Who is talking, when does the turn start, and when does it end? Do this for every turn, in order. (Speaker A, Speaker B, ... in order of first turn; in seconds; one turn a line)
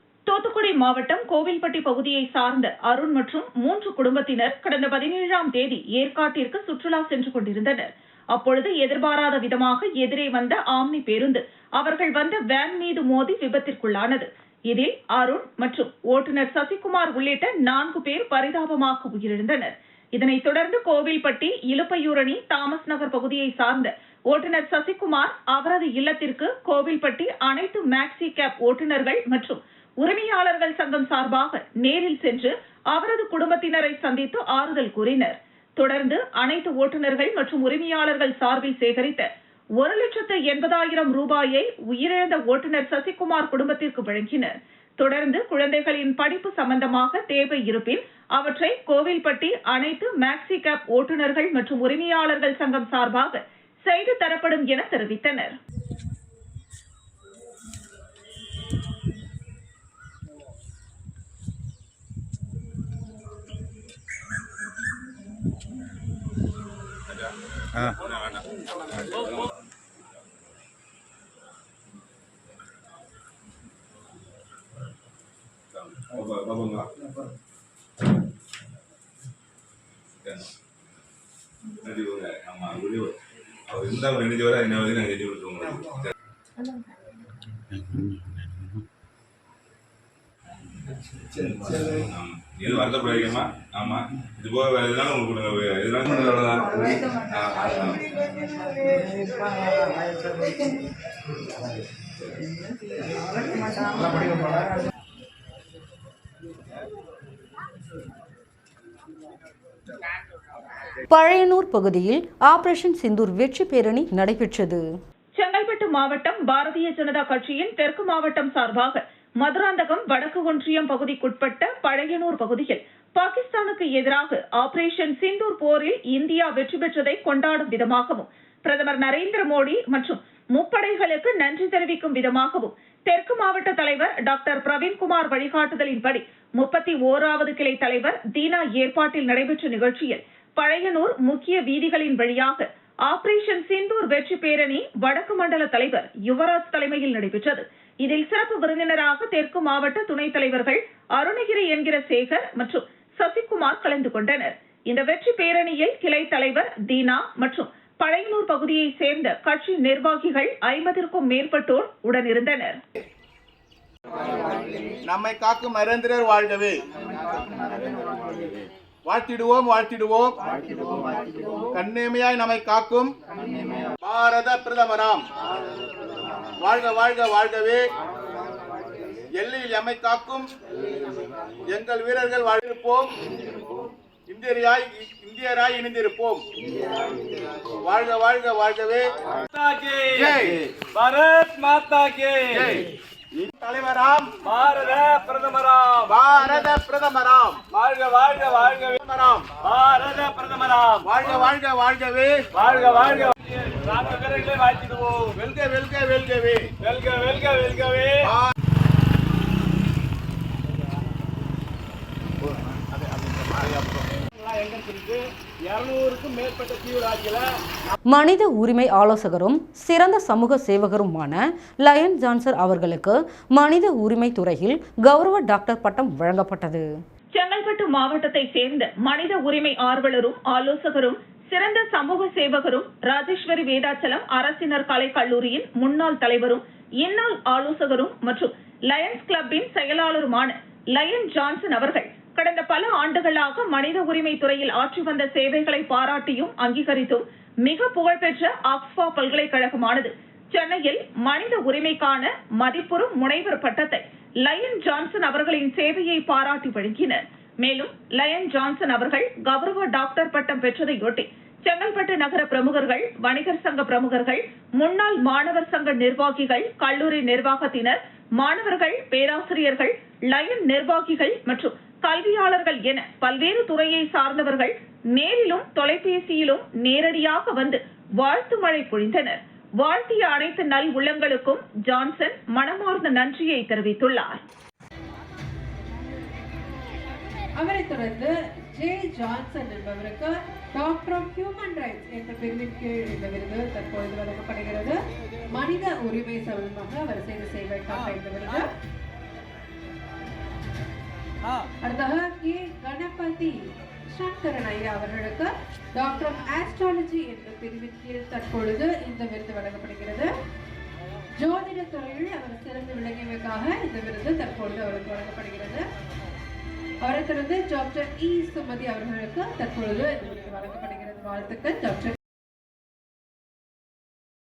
Speaker A: 0.3-39.3
Speaker A: 39.8-55.6
Speaker B: 75.7-76.9
Speaker B: 80.2-80.5
Speaker B: 81.8-83.2
Speaker B: 83.7-85.9
Speaker B: 91.4-98.0
Speaker C: 111.1-114.8
Speaker A: 115.4-162.8
Speaker D: 165.1-166.8
Speaker D: 169.1-170.4
Speaker D: 171.7-173.1
Speaker D: 174.0-175.2
Speaker D: 176.6-177.8
Speaker D: 179.4-180.5
Speaker D: 181.7-183.1
Speaker D: 184.3-186.4
Speaker D: 187.8-189.1
Speaker E: 189.5-190.3
Speaker D: 190.1-190.6
Speaker E: 190.9-192.7
Speaker D: 192.5-192.8
Speaker D: 193.5-194.3
Speaker E: 194.4-196.1
Speaker D: 196.1-197.6
Speaker E: 197.7-199.0
Speaker D: 199.0-199.5
Speaker E: 199.6-201.0
Speaker D: 201.0-202.4
Speaker E: 202.6-205.3
Speaker D: 205.4-206.6
Speaker E: 206.8-208.3
Speaker D: 208.2-208.5
Speaker E: 213.3-213.8
Speaker E: 214.4-217.4
Speaker C: 218.1-226.9
Speaker A: 227.3-284.4
Speaker F: 287.6-298.7
Speaker F: 301.8-303.6
Speaker F: 304.1-310.3
Speaker F: 311.4-315.9
Speaker F: 317.0-322.2